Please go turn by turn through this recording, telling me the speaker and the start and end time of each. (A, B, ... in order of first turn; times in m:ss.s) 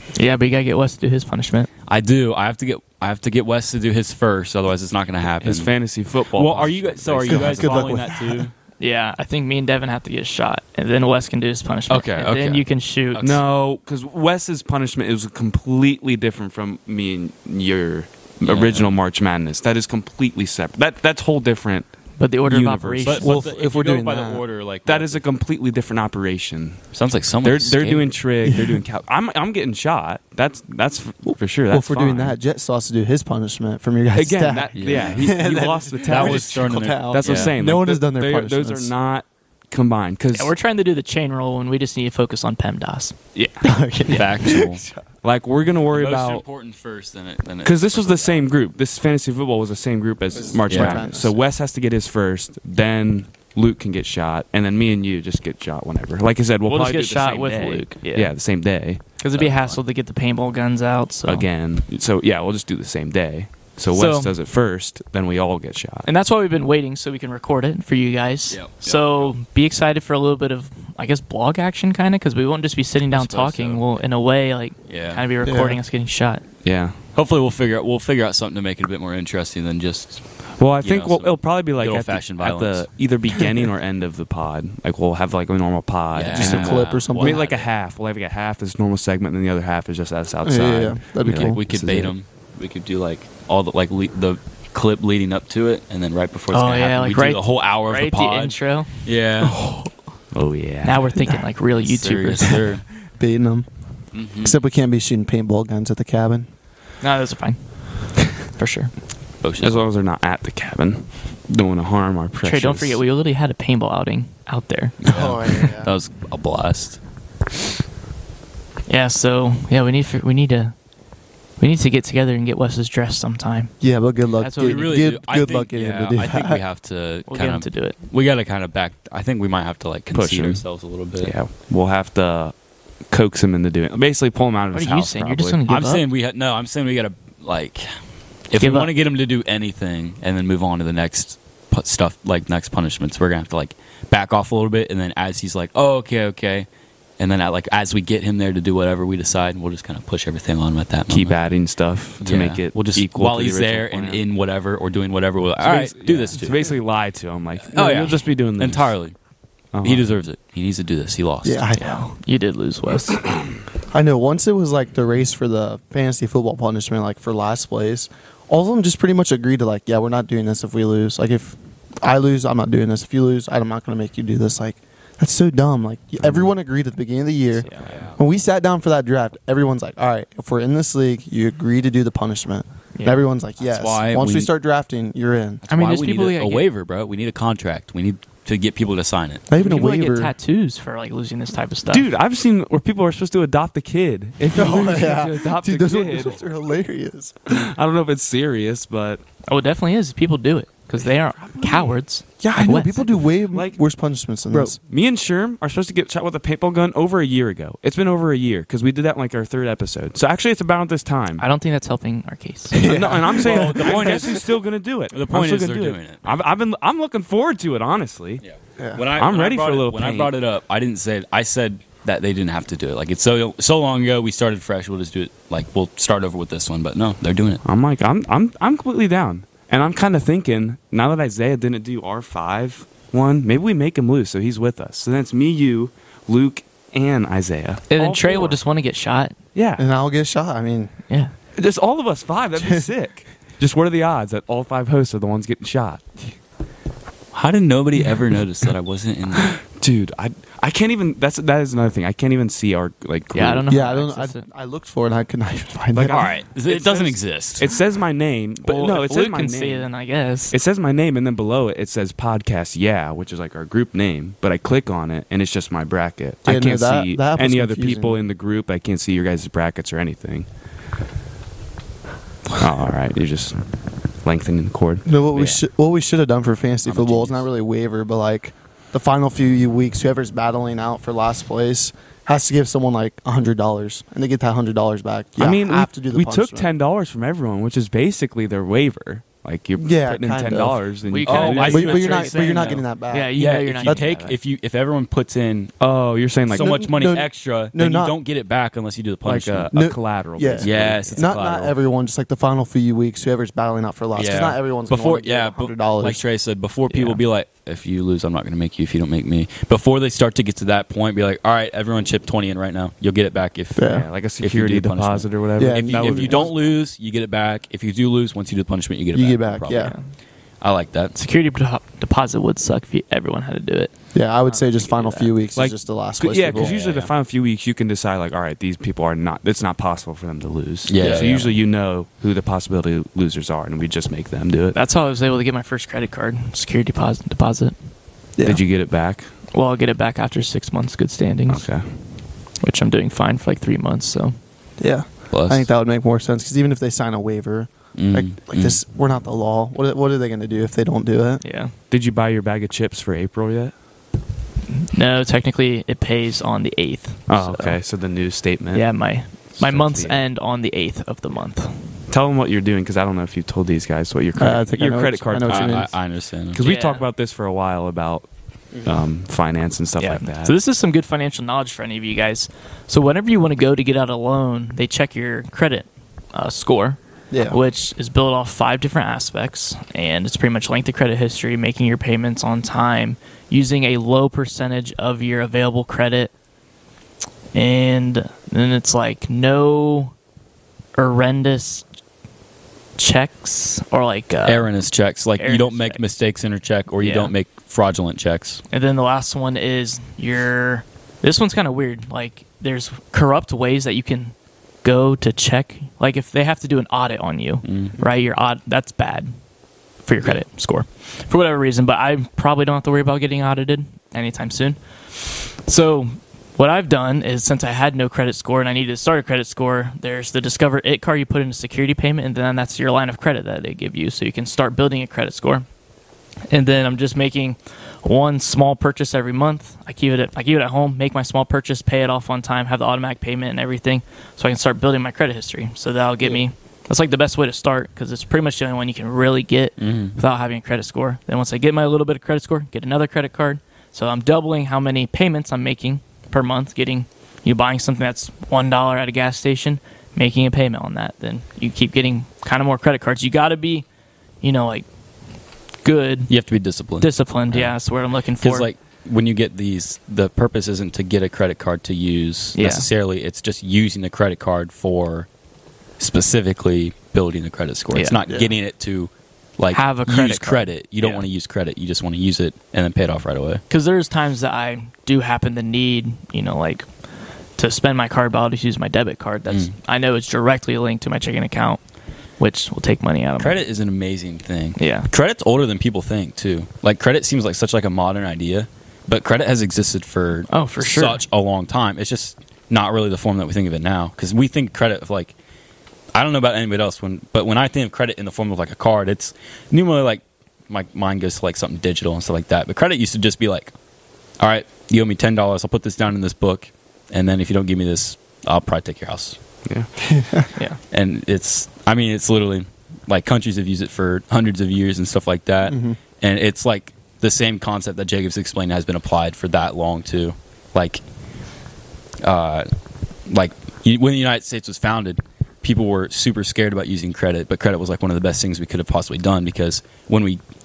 0:00.1-0:01.7 A
0:01.9-0:05.7 B
0:05.4-0:08.1 C
0:06.3-0:08.5 B
0:07.3-0:08.5 D
0:08.8-0:13.2 A
0:11.9-0:13.4 B
0:13.2-0:21.9 C
0:18.4-0:18.9 B
0:22.2-0:23.3 A
0:22.4-0:23.3 C
0:23.0-0:25.2 B
0:23.2-0:24.4 D
0:24.8-0:26.8 C
0:26.9-0:28.1 B
0:27.4-0:32.4 C
0:28.4-0:28.8 D
0:31.2-0:38.9 D
0:34.1-0:40.5 C
0:34.7-0:35.2 B
0:36.0-0:37.5 B
0:40.3-0:43.2 A
0:43.3-0:43.7 C
0:43.6-0:45.0 D
0:44.1-0:44.8 B
0:45.2-0:46.4 C
0:45.9-0:48.4 B
0:47.6-0:59.0 C
0:50.3-0:51.4 D
0:50.7-0:51.0 B
0:56.6-0:58.3 A
0:59.2-1:01.5 A
0:59.3-0:59.8 B
1:01.2-1:06.1 C
1:03.9-1:04.3 A
1:06.0-1:16.4 A
1:08.5-1:09.3 B
1:13.1-1:13.8 B
1:14.9-1:15.2 B
1:15.4-1:15.8 D
1:16.6-1:17.0 C
1:17.1-1:20.2 B
1:20.6-1:32.1 C
1:20.8-1:22.9 B
1:26.1-1:27.7 B
1:26.3-1:27.4 D
1:30.4-1:31.6 D
1:31.2-1:39.5 B
1:36.5-1:38.9 A
1:39.4-1:39.8 D
1:40.3-1:41.1 C
1:40.8-1:42.6 A
1:41.8-1:42.8 B
1:42.5-1:43.7 D
1:44.1-1:44.6 B
1:44.4-1:46.5 D
1:47.0-1:48.9 A
1:49.4-1:49.8 B
1:49.6-1:53.0 C
1:52.4-1:55.0 A
1:55.0-1:57.0 B
1:55.1-1:55.9 D
1:58.9-2:00.7 A
2:01.6-2:03.7 A
2:03.8-2:06.6 D
2:04.4-2:05.0 A
2:04.6-2:11.3 B
2:07.3-2:08.0 A
2:10.1-2:10.6 C
2:11.2-2:12.5 C
2:13.1-2:15.6 C
2:14.7-2:16.0 A
2:15.7-2:26.7 B
2:18.6-2:18.9 A
2:27.2-2:31.4 B
2:31.1-2:34.2 C
2:32.2-2:36.6 B
2:35.6-2:38.9 C
2:37.7-2:39.1 B
2:39.7-2:40.1 C
2:39.8-2:41.6 B
2:41.4-2:42.1 D
2:41.7-2:43.2 A
2:43.9-3:05.6 D
2:57.6-2:58.0 A
2:57.8-2:58.2 B
3:02.9-3:03.2 A
3:03.6-3:04.5 B
3:05.7-3:09.5 B
3:05.7-3:06.7 A
3:09.5-3:10.3 D
3:09.5-3:12.1 A
3:11.9-3:16.4 C
3:14.5-3:17.6 D
3:17.5-3:19.2 C
3:19.5-3:23.0 A
3:21.0-3:21.9 C
3:22.4-3:24.8 D
3:23.2-3:23.8 C
3:24.5-3:31.4 C
3:31.4-3:32.9 A
3:32.8-3:38.4 C
3:32.8-3:34.3 D
3:33.4-3:34.5 B
3:35.1-3:36.2 B
3:38.4-3:47.6 B
3:38.8-3:39.0 D
3:39.1-3:40.3 C
3:47.6-3:58.6 C
3:57.9-3:59.3 A
3:59.5-3:59.8 C
3:59.8-4:00.9 D
4:01.6-4:06.1 C
4:07.3-4:09.6 B
4:09.5-4:13.7 C
4:13.3-4:14.4 A
4:13.7-4:16.3 D
4:15.9-4:19.9 C
4:16.1-4:17.6 B
4:18.6-4:20.6 A
4:20.5-4:30.5 C
4:26.4-4:28.2 D
4:32.6-4:35.6 C
4:35.0-4:46.7 D
4:36.8-4:37.4 B
4:45.4-4:52.1 C
4:49.8-4:50.8 D
4:51.1-4:54.3 A
4:51.2-4:52.8 B
4:51.7-4:54.1 D
4:53.3-4:55.8 B
4:55.8-4:56.9 C
4:56.5-4:59.7 B
4:56.5-4:58.1 D
4:59.2-5:01.2 C
4:59.7-5:06.2 D
5:00.6-5:01.7 B
5:04.1-5:19.9 B
5:06.9-5:07.2 A
5:13.8-5:14.1 D
5:13.8-5:16.5 C
5:15.6-5:16.5 D
5:19.1-5:19.9 D
5:19.7-5:20.0 A
5:20.6-5:21.1 B
5:21.1-5:23.9 A
5:24.1-5:26.7 D
5:24.4-5:25.3 A
5:25.6-5:34.8 C
5:26.5-5:27.1 B
5:30.9-5:31.5 B
5:34.7-5:37.8 A
5:38.4-5:38.6 D
5:38.4-5:39.3 C
5:39.5-5:41.7 A
5:41.5-5:41.9 C
5:42.6-5:44.3 A
5:44.8-5:51.4 D
5:45.3-5:45.7 B
5:47.9-5:48.8 B
5:51.4-5:51.7 A
5:51.9-5:53.7 C
5:54.7-5:57.8 A
5:57.3-6:00.2 C
5:58.7-6:01.8 A
6:02.1-6:05.9 C
6:04.4-6:05.9 D
6:05.5-6:06.6 B
6:06.5-6:08.3 C
6:06.6-6:07.0 A
6:08.8-6:10.5 C
6:10.0-6:26.3 A
6:17.3-6:17.6 D
6:27.5-6:30.1 A
6:31.0-6:31.8 A
6:33.0-6:34.7 A
6:34.4-6:38.6 B
6:35.4-6:36.0 A
6:37.0-6:37.3 A
6:38.7-6:49.3 A
6:47.6-6:48.0 B
6:50.0-7:05.6 A
7:06.5-7:33.8 A
7:19.8-7:20.2 B
7:34.4-7:34.8 A
7:35.8-7:36.3 A
7:36.3-7:37.8 B
7:37.0-7:38.7 A
7:38.4-7:45.3 B
7:42.5-7:42.9 A
7:46.0-7:53.6 B
7:47.9-7:48.2 A
7:49.7-7:51.2 A
7:53.7-7:56.9 A
7:57.6-8:01.8 A
8:02.4-8:03.6 A
8:03.4-8:15.3 B
8:04.8-8:05.1 A
8:10.5-8:11.2 A
8:16.1-8:23.7 B
8:24.4-8:29.4 B
8:30.1-8:30.5 D
8:30.9-8:41.0 B
8:35.6-8:36.0 D
8:42.2-8:42.7 B
8:43.3-8:50.4 B